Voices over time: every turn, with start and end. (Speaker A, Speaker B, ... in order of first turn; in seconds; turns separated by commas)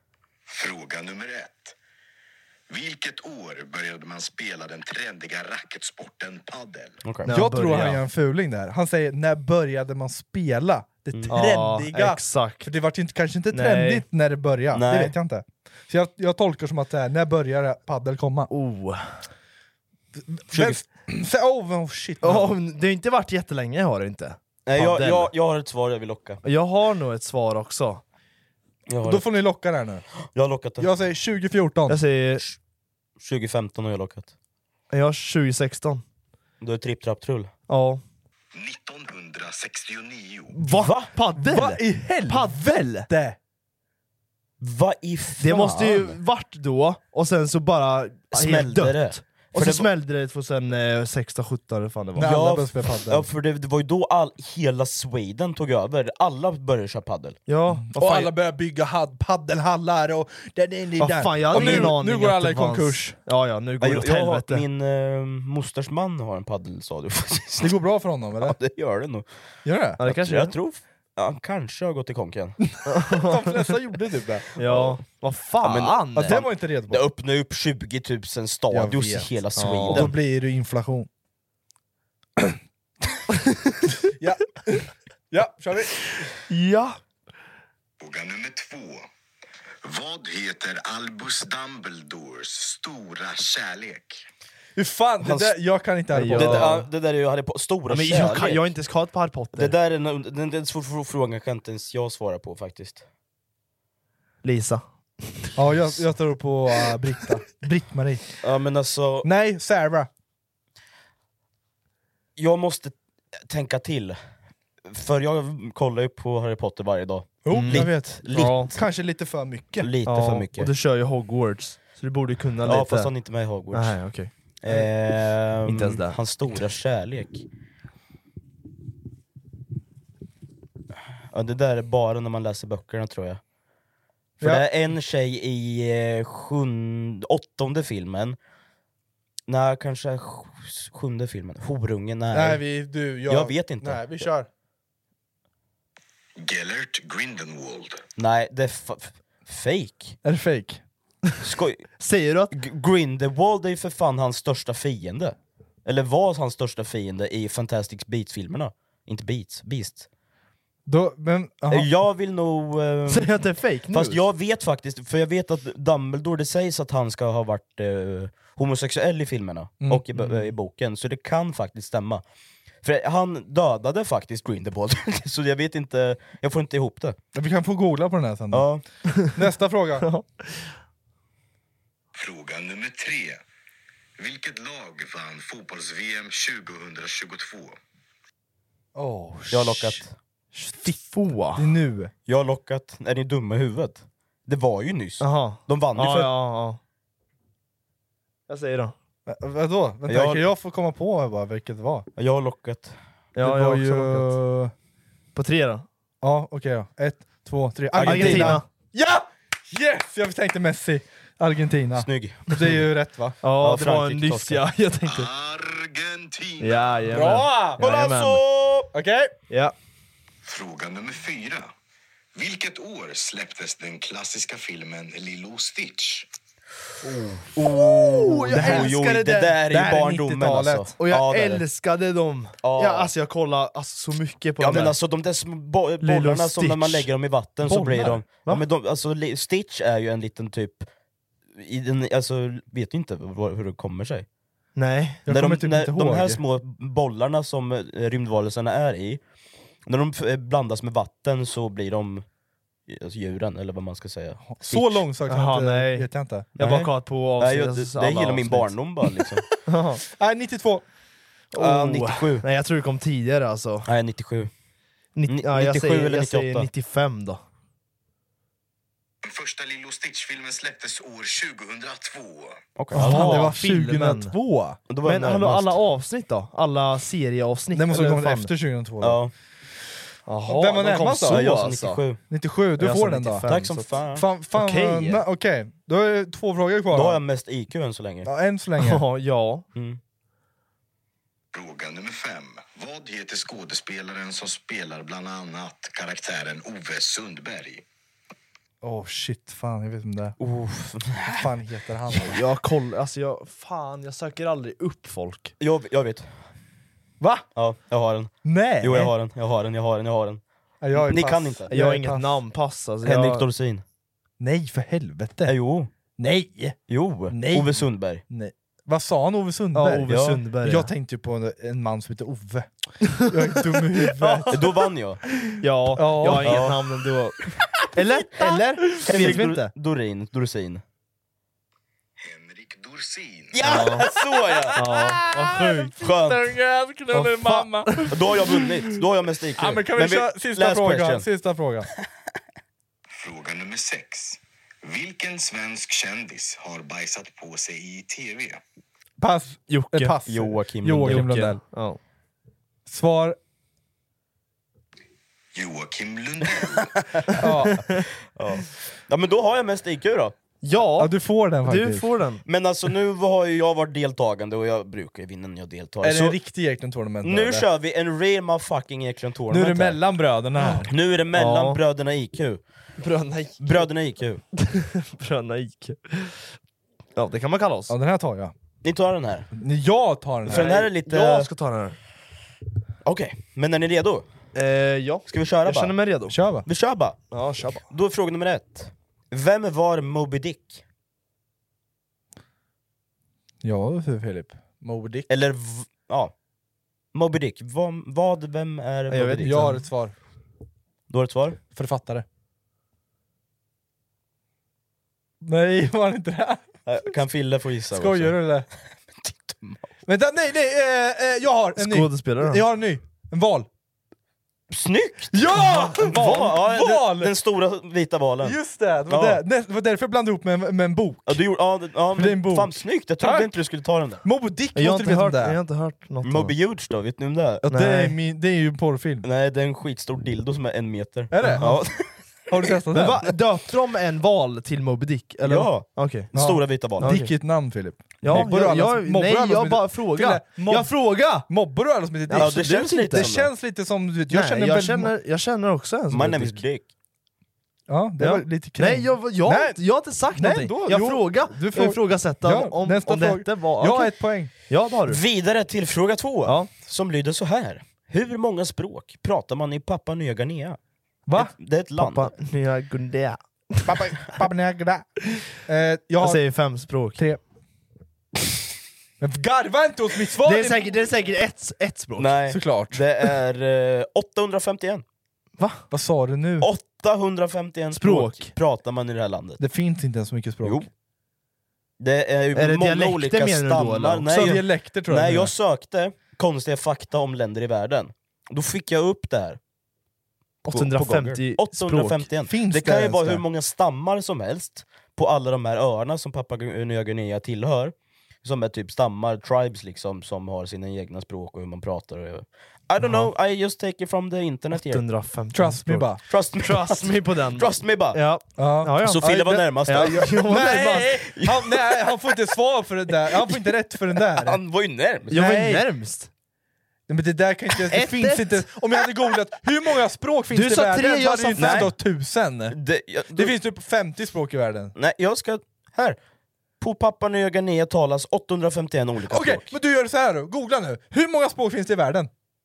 Speaker A: 0.5-1.7, Speaker A: 2.7-7.0, Speaker B: 7.0-7.3, Speaker C: 7.2-8.0, Speaker D: 7.3-18.5, Speaker C: 11.3-12.7, Speaker C: 13.5-14.0, Speaker B: 14.7-15.1, Speaker C: 18.5-19.2, Speaker D: 20.3-22.5, Speaker B: 20.5-20.8, Speaker C: 22.2-25.3, Speaker B: 24.6-26.4, Speaker C: 26.4-28.0, Speaker B: 28.9-29.3, Speaker D: 29.0-30.0, Speaker B: 30.3-30.9, Speaker D: 30.8-32.0, Speaker C: 31.9-32.4, Speaker B: 33.2-34.3, Speaker C: 34.9-36.0, Speaker B: 36.6-37.5, Speaker C: 37.7-38.0, Speaker A: 38.5-40.5, Speaker C: 40.5-43.1, Speaker B: 40.6-41.1, Speaker D: 41.4-43.4, Speaker B: 44.6-46.1, Speaker C: 45.4-52.3, Speaker D: 45.5-46.0, Speaker B: 48.3-49.9, Speaker D: 52.1-53.2, Speaker B: 52.2-57.4, Speaker C: 57.5-58.3, Speaker D: 57.8-63.2, Speaker C: 61.0-64.6, Speaker B: 61.5-61.9, Speaker B: 63.8-67.8, Speaker D: 67.6-68.6, Speaker B: 68.4-69.2, Speaker D: 69.6-70.0, Speaker C: 70.0-70.5, Speaker B: 70.0-72.6, Speaker C: 72.9-73.5, Speaker D: 72.9-74.4, Speaker C: 74.5-76.4, Speaker B: 74.6-75.0, Speaker B: 75.6-80.1, Speaker D: 76.2-77.0, Speaker D: 78.7-79.3, Speaker C: 79.6-80.1, Speaker D: 79.9-81.1, Speaker D: 84.1-86.2, Speaker C: 86.5-87.0, Speaker A: 88.0-89.0, Speaker A: 89.8-94.2, Speaker D: 94.8-96.9, Speaker B: 95.2-95.5, Speaker C: 96.1-96.8, Speaker B: 96.3-98.7, Speaker C: 97.9-99.7, Speaker B: 99.5-103.0, Speaker C: 104.4-105.5, Speaker D: 105.5-108.3, Speaker B: 108.4-109.3, Speaker D: 109.2-110.1, Speaker B: 112.4-114.2, Speaker B: 114.9-118.8, Speaker D: 117.5-119.9, Speaker C: 117.5-118.7, Speaker B: 119.8-120.7, Speaker C: 120.0-123.1, Speaker B: 122.6-124.0, Speaker C: 123.7-124.3, Speaker B: 124.6-127.4, Speaker C: 125.7-126.1, Speaker B: 131.3-133.4, Speaker B: 134.4-138.4, Speaker B: 139.5-142.6, Speaker D: 142.3-144.5, Speaker B: 143.2-144.2, Speaker A: 146.4-148.0, Speaker B: 148.2-150.2, Speaker D: 150.2-150.8, Speaker B: 151.4-151.9, Speaker C: 152.0-152.5, Speaker B: 152.5-160.1, Speaker D: 160.8-161.9, Speaker B: 161.7-172.2, Speaker C: 163.1-164.2, Speaker D: 169.8-170.4, Speaker B: 172.8-177.2, Speaker D: 177.3-178.7, Speaker B: 178.5-178.8, Speaker D: 179.3-180.1, Speaker C: 180.0-180.6, Speaker A: 182.1-183.4, Speaker A: 184.2-187.8, Speaker D: 188.9-190.0, Speaker B: 189.5-190.1, Speaker C: 190.6-191.7, Speaker D: 191.6-192.1, Speaker B: 192.3-196.3, Speaker C: 195.2-196.8, Speaker C: 198.5-198.9, Speaker D: 199.3-202.1, Speaker B: 200.1-200.4, Speaker B: 202.2-202.9, Speaker C: 203.3-204.3, Speaker D: 203.4-204.7, Speaker C: 205.3-205.8, Speaker D: 206.2-213.4, Speaker B: 208.0-208.6, Speaker C: 208.0-208.7, Speaker B: 212.0-212.4, Speaker C: 213.4-215.3, Speaker B: 213.6-214.6, Speaker A: 215.0-217.1, Speaker C: 216.6-218.4, Speaker D: 217.1-217.8, Speaker B: 217.8-218.9, Speaker D: 218.9-219.3, Speaker C: 219.5-219.7, Speaker A: 220.4-221.7, Speaker A: 222.3-226.3, Speaker B: 227.6-231.6, Speaker C: 227.9-229.2, Speaker D: 228.5-230.9, Speaker C: 231.0-235.0, Speaker B: 232.6-233.1, Speaker B: 234.6-240.9, Speaker C: 236.0-237.1, Speaker C: 237.6-238.6, Speaker B: 241.6-244.2, Speaker C: 244.8-245.2, Speaker D: 245.2-246.4, Speaker B: 245.3-249.2, Speaker B: 249.8-252.2, Speaker B: 252.9-254.9, Speaker D: 254.4-256.5, Speaker C: 255.3-258.9, Speaker B: 256.6-259.5, Speaker C: 259.7-260.0, Speaker D: 260.2-260.8, Speaker C: 261.5-263.9, Speaker B: 261.6-262.4, Speaker B: 263.9-264.5, Speaker C: 265.1-267.4, Speaker B: 265.3-266.7, Speaker A: 269.2-272.6, Speaker B: 272.8-273.5, Speaker C: 272.9-274.3, Speaker D: 272.9-274.8, Speaker B: 274.9-275.8, Speaker C: 275.0-278.5, Speaker D: 277.8-279.2, Speaker B: 279.0-279.3, Speaker C: 280.3-282.0, Speaker D: 280.5-281.6, Speaker B: 281.3-282.2, Speaker D: 282.3-283.5, Speaker C: 282.8-283.9, Speaker B: 283.5-284.2, Speaker D: 284.1-287.2, Speaker C: 284.5-285.2, Speaker B: 286.9-288.3, Speaker D: 288.2-289.0, Speaker C: 288.8-289.6, Speaker B: 289.7-290.0, Speaker A: 291.5-297.8, Speaker D: 298.8-300.3, Speaker B: 300.4-301.5, Speaker D: 301.2-302.4, Speaker C: 302.3-305.5, Speaker B: 305.6-306.3, Speaker B: 307.5-310.4, Speaker D: 308.4-309.1, Speaker D: 310.8-312.4, Speaker B: 310.9-311.7, Speaker C: 311.7-313.4, Speaker B: 313.0-313.8, Speaker D: 314.4-315.5, Speaker B: 315.4-315.9, Speaker D: 316.2-316.8, Speaker B: 316.9-318.2, Speaker D: 317.3-317.7, Speaker D: 318.3-322.7, Speaker C: 319.7-320.9, Speaker B: 320.1-320.4, Speaker D: 323.2-324.5, Speaker C: 324.0-324.6, Speaker B: 324.5-325.2, Speaker C: 325.6-327.4, Speaker D: 325.9-326.6, Speaker B: 326.4-326.8, Speaker C: 327.9-329.7, Speaker B: 328.9-330.8, Speaker A: 332.2-333.5, Speaker B: 333.5-334.8, Speaker C: 333.6-334.1, Speaker D: 334.0-338.1, Speaker C: 334.7-335.9, Speaker B: 336.0-336.5, Speaker C: 337.1-338.1, Speaker B: 338.1-341.2, Speaker D: 339.6-341.9, Speaker A: 343.2-348.6, Speaker D: 349.2-351.6, Speaker C: 349.7-350.1, Speaker B: 350.3-351.6, Speaker C: 351.0-352.0, Speaker D: 352.9-353.4, Speaker A: 355.5-356.9, Speaker B: 357.0-360.3, Speaker D: 357.4-357.8, Speaker C: 357.7-358.0, Speaker C: 360.6-361.1, Speaker D: 361.0-362.1, Speaker C: 361.6-362.4, Speaker B: 362.4-366.4, Speaker D: 366.0-367.6, Speaker B: 367.2-370.0, Speaker D: 369.5-370.9, Speaker C: 370.7-371.8, Speaker B: 370.9-372.6, Speaker C: 373.0-373.9, Speaker B: 373.6-374.4, Speaker C: 374.6-376.4, Speaker C: 377.1-377.9, Speaker D: 377.9-378.5, Speaker B: 378.8-379.5, Speaker D: 379.5-380.7, Speaker C: 380.4-382.0, Speaker B: 380.5-381.5, Speaker B: 383.0-384.3, Speaker C: 384.5-386.4, Speaker B: 385.3-386.0, Speaker D: 386.3-386.6, Speaker B: 386.6-387.2, Speaker C: 387.3-387.8, Speaker B: 387.9-390.8, Speaker D: 393.6-395.3, Speaker B: 395.3-396.3, Speaker B: 397.1-399.6, Speaker C: 399.1-399.8, Speaker D: 399.4-400.1, Speaker B: 401.1-401.6, Speaker D: 401.7-402.2, Speaker D: 405.4-406.6, Speaker B: 406.9-408.4, Speaker D: 407.9-408.7, Speaker B: 409.2-409.8, Speaker D: 410.1-413.7, Speaker C: 411.8-412.6, Speaker B: 414.7-415.4, Speaker D: 415.3-417.3, Speaker C: 415.6-416.5, Speaker B: 416.0-418.6, Speaker D: 418.4-421.4, Speaker B: 419.1-419.4, Speaker B: 421.3-424.2, Speaker D: 422.1-423.5, Speaker D: 424.2-425.6, Speaker C: 424.7-426.5, Speaker B: 426.2-427.6, Speaker D: 427.6-429.2, Speaker C: 427.7-428.1, Speaker B: 429.2-432.1, Speaker D: 431.3-431.8, Speaker C: 431.4-431.8, Speaker D: 432.5-433.3, Speaker C: 432.9-436.3, Speaker B: 435.4-437.1, Speaker D: 436.3-445.1, Speaker C: 437.0-437.4, Speaker C: 438.2-441.5, Speaker C: 442.3-443.3, Speaker B: 442.3-443.5, Speaker C: 444.3-446.6, Speaker B: 446.1-446.8, Speaker D: 447.9-454.5, Speaker C: 448.2-454.1, Speaker C: 454.7-455.2, Speaker B: 455.1-460.8, Speaker C: 456.4-456.7, Speaker B: 461.3-462.3, Speaker C: 461.9-464.0, Speaker D: 463.9-466.4, Speaker C: 466.2-467.2, Speaker D: 467.1-467.4, Speaker D: 469.2-470.9, Speaker C: 470.4-472.4, Speaker B: 472.2-475.0, Speaker D: 472.5-473.0, Speaker C: 475.6-475.8, Speaker D: 475.9-476.7, Speaker B: 476.6-479.6, Speaker C: 477.9-478.5, Speaker D: 479.6-480.9, Speaker B: 482.0-489.6, Speaker C: 482.5-484.5, Speaker D: 484.3-485.5, Speaker C: 490.6-492.3, Speaker B: 490.7-505.0, Speaker D: 492.5-493.4, Speaker D: 503.0-503.3, Speaker C: 504.7-511.2, Speaker D: 505.5-506.2, Speaker B: 506.3-508.2, Speaker D: 508.6-514.6, Speaker B: 509.0-510.3, Speaker B: 511.4-511.8, Speaker B: 514.3-515.4, Speaker C: 515.3-516.3, Speaker D: 515.3-515.9, Speaker D: 517.1-522.8, Speaker C: 517.9-518.7, Speaker C: 520.5-521.9, Speaker B: 521.6-521.9, Speaker B: 522.7-523.5, Speaker D: 523.3-524.9, Speaker B: 525.0-526.2, Speaker B: 526.8-529.7, Speaker D: 529.3-532.3